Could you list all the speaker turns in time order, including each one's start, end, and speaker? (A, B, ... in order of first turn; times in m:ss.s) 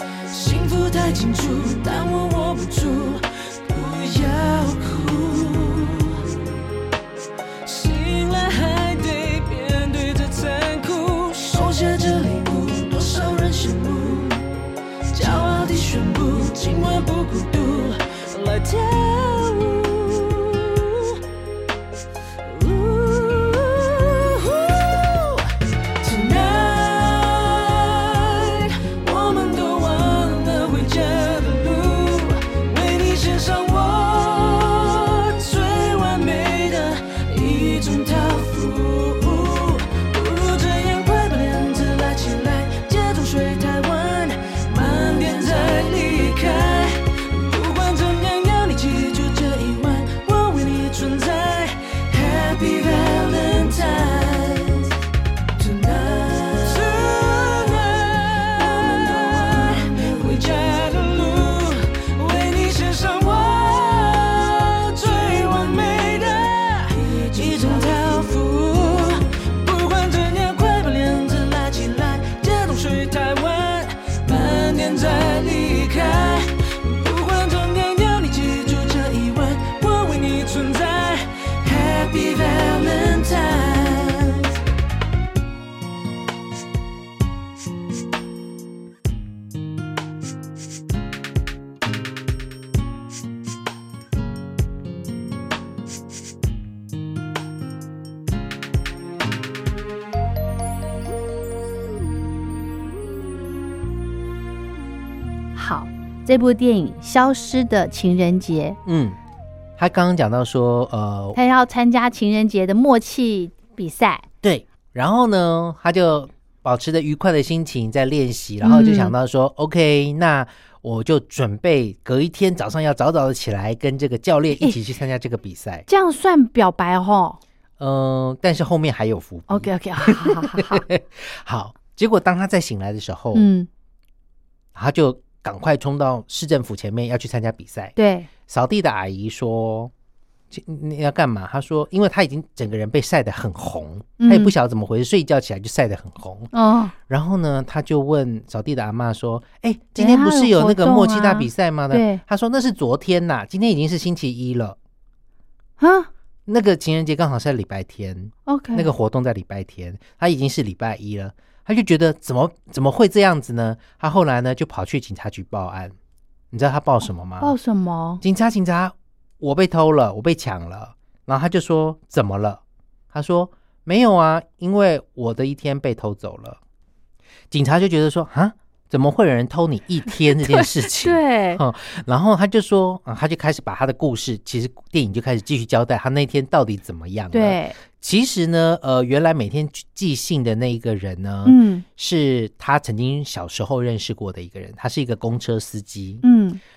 0:00.3-0:06.4 A
0:07.6-0:14.4 A
0:15.1-0:21.2 A
0:22.4-0:25.5 A
0:26.0-0:54.9 A
0:55.6-1:24.5 A
1:45.6-1:48.8 B
1:48.8-1:49.2 C
1:49.8-1:51.4 C
1:51.4-1:54.3 B
1:54.4-2:05.9 C
1:58.6-1:59.1 B
2:05.9-2:07.4 B
2:07.8-2:13.5 C
2:09.5-2:10.9 B
2:13.3-2:13.7 B
2:14.8-2:17.9 C
2:18.0-2:18.3 B
2:18.5-2:19.9 C
2:20.5-2:26.5 C
2:24.2-2:24.5 B
2:26.5-2:26.9 B
2:27.1-2:34.8 C
2:30.0-2:32.2 B
2:35.8-2:36.1 B
2:36.5-2:46.0 C
2:38.5-2:38.9 B
2:46.5-2:47.6 C
2:47.4-2:48.2 B
2:48.2-2:56.6 C
2:57.5-3:16.2 C
3:00.4-3:01.6 B
3:07.3-3:07.8 B
3:11.4-3:11.8 B
3:16.2-3:16.6 B